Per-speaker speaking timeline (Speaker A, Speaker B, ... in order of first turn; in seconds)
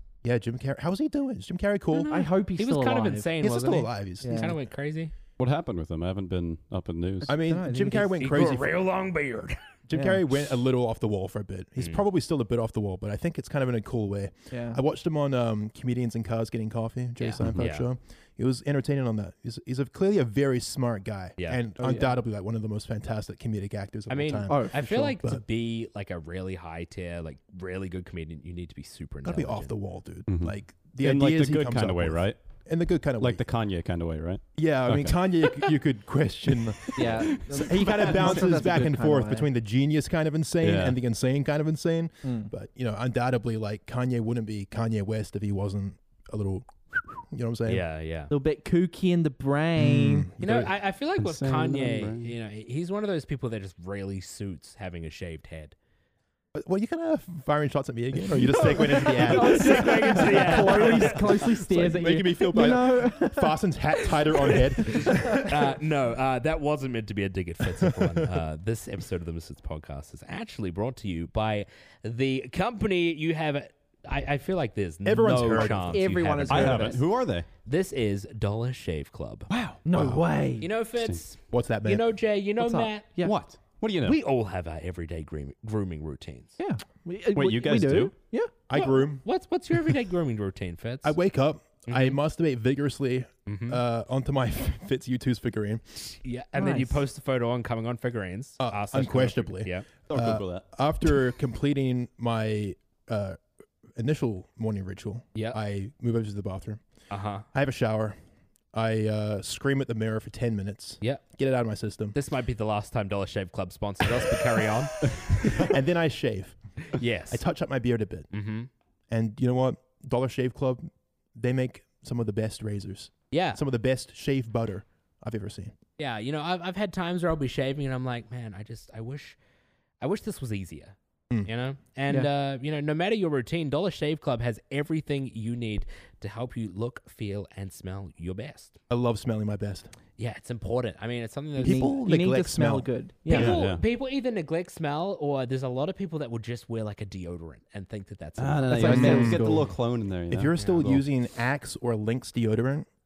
Speaker A: 0.2-2.1, 3.4-4.6, 7.3-8.8, 9.9-25.4, 29.2-33.4, 34.6-47.8, 49.8-50.7, 56.5-65.7, 67.7-68.4, 75.0-76.1, 79.9-80.2, 81.5-82.0, 88.7-89.2, 91.0-96.0, 98.6-103.4, 103.9-106.8, 107.5-108.2, 108.7-112.2, 115.1-118.3, 119.1-125.7, 138.9-139.9, 141.6-142.9, 148.8-149.7, 150.3-152.9
Speaker B: 1.9-5.1, 8.1-9.6, 11.8-12.0, 17.2-17.9, 24.1-29.7, 47.7-48.3, 50.4-55.8, 58.5-61.4, 64.8-77.0, 77.7-79.5, 80.6-83.1, 84.0-86.5, 88.7-91.2, 91.9-92.2, 93.5-93.8, 96.2-99.9, 107.1-107.5, 112.1-115.7, 116.9-117.4, 118.3-118.7, 123.3-123.6, 126.0-129.4, 130.0-138.8, 140.2-141.9, 143.3-149.3, 150.5-150.9
Speaker C: 2.1-3.3, 4.2-4.6, 7.2-8.2, 9.9-10.2, 14.5-14.8, 21.8-22.1, 24.5-25.2, 37.0-39.5, 42.2-42.5, 48.3-50.3, 58.5-65.4, 75.5-77.0, 79.8-80.7, 82.6-83.3, 86.6-88.5, 96.5-97.0, 141.6-143.5, 148.7-149.7
Speaker D: 5.4-7.3, 17.4-17.6, 30.3-32.4, 33.2-35.2, 37.3-38.4, 40.6-41.0, 51.2-52.3, 76.5-77.5, 83.2-84.2, 87.3-88.1, 100.1-100.7, 143.3-143.8, 148.4-151.1